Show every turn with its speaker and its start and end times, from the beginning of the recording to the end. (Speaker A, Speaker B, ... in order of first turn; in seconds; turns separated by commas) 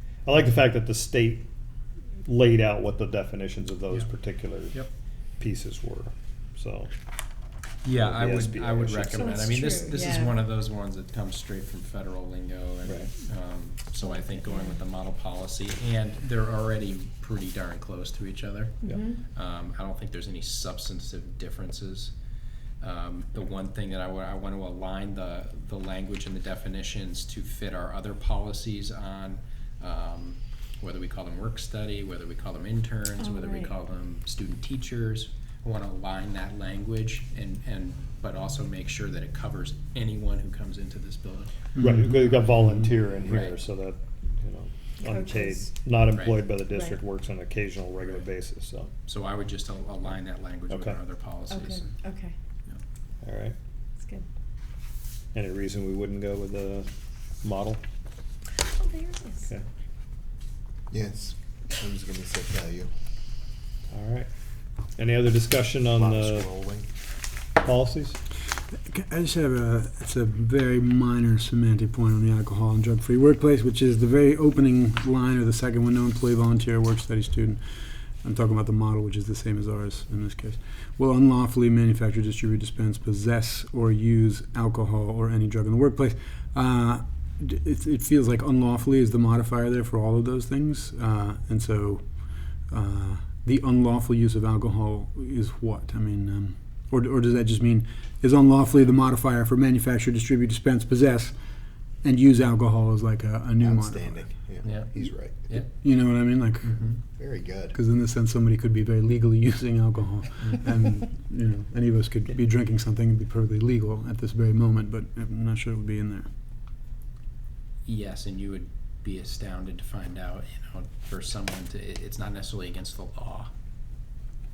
Speaker A: 0.3-1.5, Speaker A: 2.3-4.8, Speaker A: 5.4-6.9, Speaker B: 7.8-18.8, Speaker A: 7.9-9.5, Speaker C: 9.3-10.4, Speaker C: 18.8-19.2, Speaker B: 19.3-22.1, Speaker B: 22.8-41.7, Speaker C: 33.2-33.7, Speaker D: 41.8-42.8, Speaker A: 41.8-48.9, Speaker B: 43.2-43.6, Speaker C: 45.0-45.7, Speaker B: 46.1-46.4, Speaker C: 46.7-47.0, Speaker B: 49.1-52.0, Speaker A: 50.7-51.0, Speaker C: 51.5-52.3, Speaker A: 53.2-53.6, Speaker A: 55.4-56.9, Speaker A: 57.4-57.8, Speaker C: 58.6-59.5, Speaker E: 60.9-62.9, Speaker A: 63.9-64.3, Speaker A: 65.0-66.5, Speaker E: 66.0-66.9, Speaker A: 67.6-68.2, Speaker D: 68.9-77.6, Speaker D: 78.2-92.0, Speaker D: 92.7-101.4, Speaker D: 102.0-104.3, Speaker E: 103.6-105.5, Speaker B: 104.6-105.7, Speaker D: 105.8-106.8, Speaker B: 106.6-107.0, Speaker E: 107.1-107.8, Speaker D: 107.7-116.3, Speaker B: 117.9-123.5